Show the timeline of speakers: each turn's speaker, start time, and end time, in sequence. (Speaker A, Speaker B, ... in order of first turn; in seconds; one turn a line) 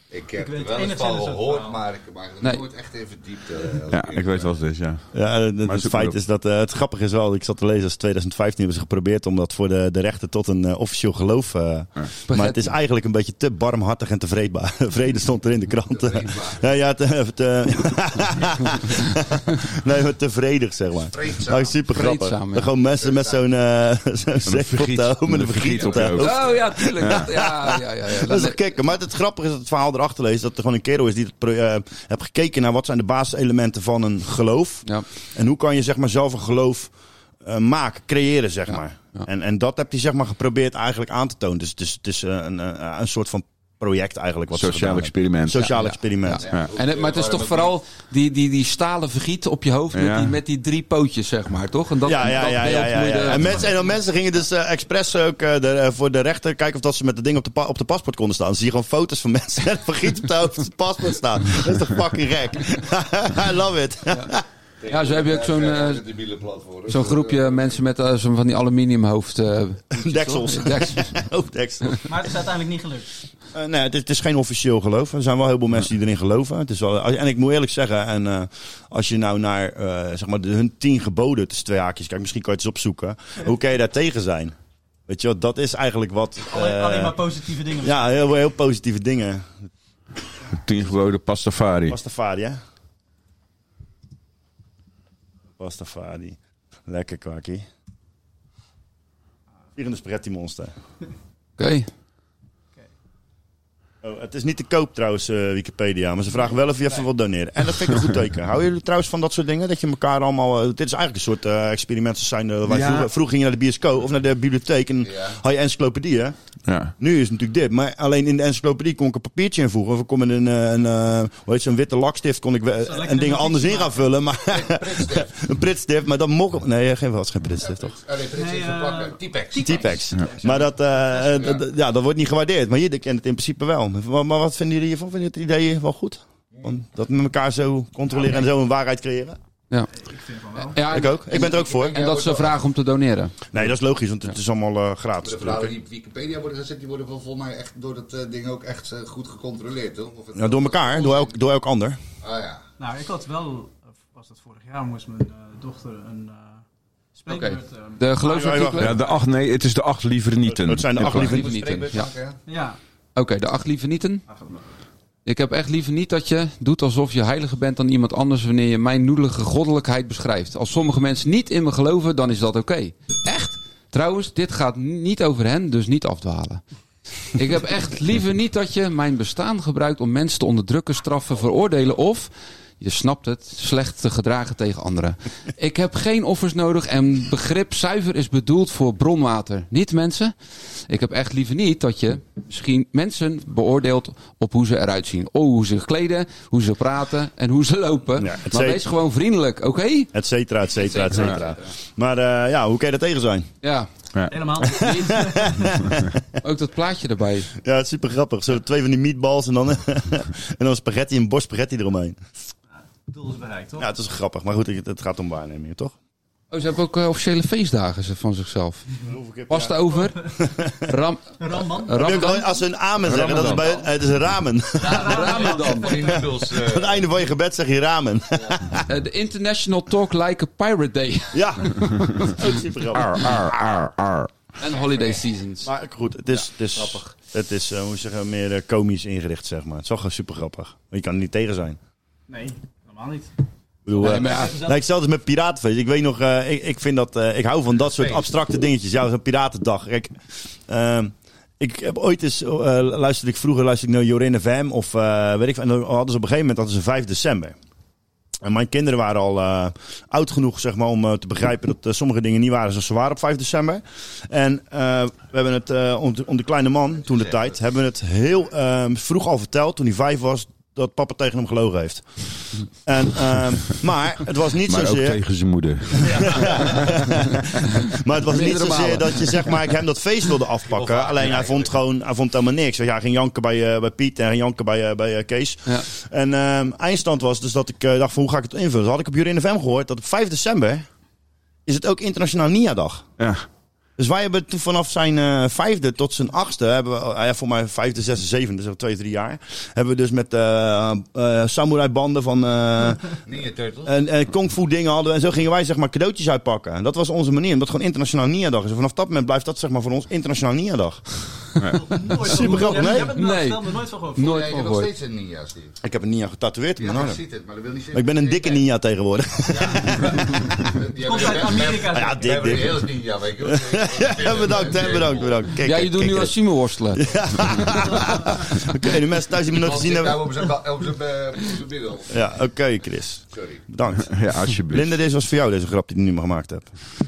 Speaker A: 0.1-4.5
Speaker B: 0.4-1.8
Speaker C: 3.9-5.0
Speaker D: 5.1-36.9
Speaker C: 5.6-6.2
Speaker E: 12.3-12.7
Speaker A: 15.9-16.6
Speaker A: 21.1-21.7
Speaker E: 21.9-22.7
Speaker A: 22.9-23.4
Speaker C: 24.4-27.4
Speaker A: 25.5-26.1
Speaker E: 26.2-28.6
Speaker D: 37.4-46.4
Speaker C: 44.5-45.7
Speaker E: 45.5-53.6
Speaker A: 46.4-47.8
Speaker C: 49.9-50.4
Speaker D: 52.0-64.4
Speaker A: 64.8-67.8
Speaker E: 64.9-66.0
Speaker E: 66.9-71.2
Speaker D: 69.9-72.1
Speaker B: 72.0-73.1
Speaker D: 73.5-84.5
Speaker D: 85.1-87.2
Speaker B: 86.5-88.2
Speaker D: 87.8-89.5
Speaker C: 90.5-92.0
Speaker D: 91.9-92.6
Speaker D: 95.6-97.7
Speaker D: 99.8-100.7
Speaker E: 101.6-101.9
Speaker D: 104.0-116.3
Speaker C: 112.7-113.1
Speaker A: 115.0-115.4
Speaker C: 116.7-116.9
Speaker D: 117.0-127.9
Speaker B: 122.8-124.1
Speaker A: 124.5-125.4
Speaker A: 127.6-129.9
Speaker B: 128.3-131.2
Speaker D: 129.6-139.4
Speaker B: 140.0-140.8
Speaker E: 140.5-143.4
Speaker D: 140.8-142.0
Speaker A: 141.3-142.6
Speaker D: 143.5-145.7
Speaker A: 145.2-151.3
Speaker D: 150.3-152.0
Speaker A: 152.2-152.6
Speaker B: 152.8-156.6
Speaker B: 157.1-159.1
Speaker E: 157.3-159.0
Speaker D: 158.3-158.9
Speaker C: 158.8-161.3
Speaker D: 160.4-161.4
Speaker E: 161.0-162.1
Speaker A: 161.1-162.4
Speaker B: 162.5-162.8
Speaker E: 163.2-164.2
Speaker B: 164.3-164.6
Speaker E: 165.2-176.6
Speaker E: 177.3-182.3
Speaker E: 182.8-190.3
Speaker E: 190.9-200.1
Speaker D: 198.2-198.8
Speaker D: 200.1-203.5
Speaker E: 200.8-201.7
Speaker E: 203.6-203.9
Speaker B: 204.3-205.7
Speaker E: 204.7-205.1
Speaker D: 204.7-206.1
Speaker E: 206.4-207.5
Speaker D: 207.6-212.2
Speaker B: 213.1-213.9
Speaker D: 213.8-215.9
Speaker E: 216.5-218.8
Speaker D: 219.1-220.7
Speaker E: 219.5-220.2
Speaker E: 220.8-222.5
Speaker B: 221.4-222.4
Speaker D: 221.9-225.1
Speaker C: 223.1-223.6
Speaker E: 223.2-223.4
Speaker A: 223.4-223.8
Speaker A: 224.8-227.1
Speaker B: 224.9-226.2
Speaker E: 224.9-226.2
Speaker D: 226.5-228.8
Speaker E: 228.9-232.2
Speaker D: 231.3-233.3
Speaker C: 232.9-234.3
Speaker E: 234.6-235.7
Speaker D: 235.6-241.8
Speaker E: 236.3-237.1
Speaker B: 242.3-243.3
Speaker D: 243.8-250.1
Speaker B: 243.9-244.8
Speaker E: 244.0-244.6
Speaker A: 247.8-248.3
Speaker D: 250.7-257.6
Speaker D: 258.4-272.1
Speaker A: 267.1-267.5
Speaker D: 272.8-275.2
Speaker C: 274.6-276.8
Speaker D: 276.0-290.9
Speaker E: 278.3-279.6
Speaker A: 280.6-281.7
Speaker D: 291.6-293.1
Speaker C: 293.2-293.4
Speaker D: 294.0-303.1
Speaker A: 303.2-303.9
Speaker D: 303.8-311.0
Speaker C: 311.6-311.9
Speaker B: 311.7-314.4
Speaker D: 312.1-313.1
Speaker E: 312.7-314.9
Speaker A: 314.2-315.8
Speaker D: 315.8-317.2
Speaker A: 316.8-318.6
Speaker D: 317.9-320.7
Speaker A: 319.4-325.4
Speaker B: 321.0-322.5
Speaker D: 321.9-326.4
Speaker E: 325.6-327.7
Speaker D: 326.9-330.4
Speaker A: 329.5-332.1
Speaker D: 332.1-336.7
Speaker A: 333.3-333.6
Speaker C: 334.0-334.9